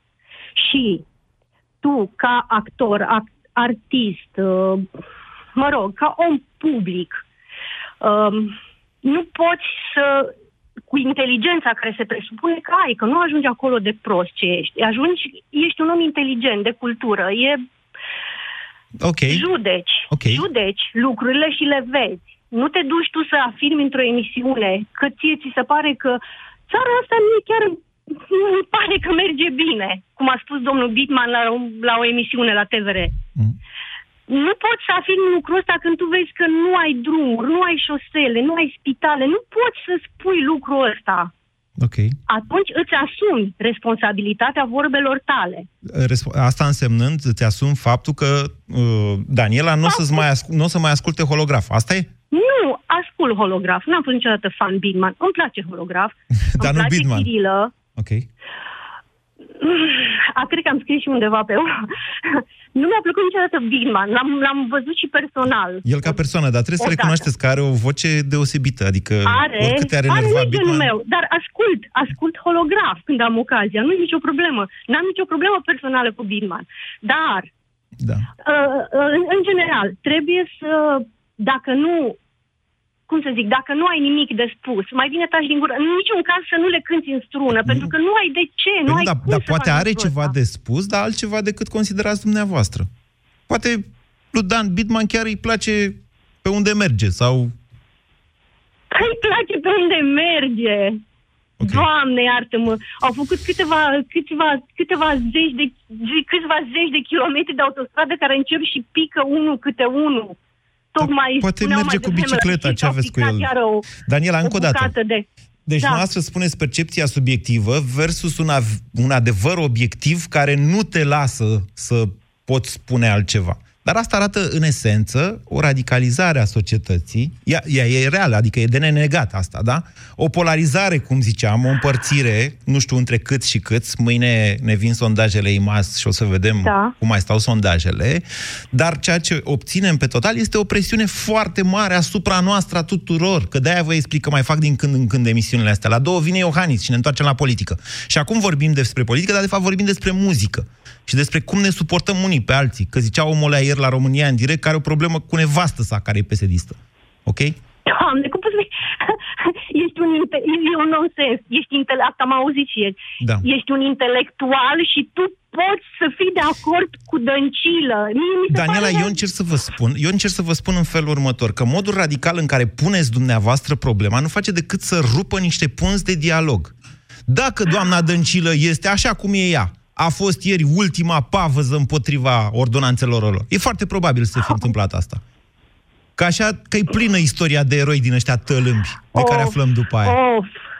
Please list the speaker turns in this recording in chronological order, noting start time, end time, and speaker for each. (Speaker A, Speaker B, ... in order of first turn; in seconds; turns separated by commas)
Speaker A: 0.6-1.1, Speaker A: 1.8-4.9, Speaker A: 5.5-7.2, Speaker A: 8.0-10.3, Speaker A: 10.9-17.6, Speaker B: 19.0-19.4, Speaker A: 19.3-33.1, Speaker B: 20.1-20.4, Speaker A: 34.3-41.3, Speaker B: 41.8-42.2, Speaker A: 42.3-45.7, Speaker B: 45.8-52.1, Speaker A: 49.9-50.2, Speaker A: 52.3-57.7, Speaker B: 56.3-57.3, Speaker B: 58.0-58.3, Speaker A: 59.6-66.2, Speaker B: 65.8-70.9, Speaker A: 66.8-67.3, Speaker A: 69.2-77.5, Speaker B: 78.0-78.3, Speaker A: 78.4-82.2, Speaker A: 83.1-90.3, Speaker B: 87.5-87.9, Speaker B: 88.9-92.9, Speaker B: 93.5-97.5, Speaker A: 98.9-101.0, Speaker B: 101.6-101.9, Speaker A: 101.6-110.4, Speaker A: 110.9-113.9, Speaker B: 111.0-115.0, Speaker A: 114.4-115.2, Speaker B: 115.7-157.6, Speaker A: 136.6-136.9, Speaker A: 157.9-169.2, Speaker B: 163.2-163.5, Speaker B: 168.5-176.7, Speaker B: 177.3-185.2, Speaker B: 186.2-190.2, Speaker A: 189.1-190.6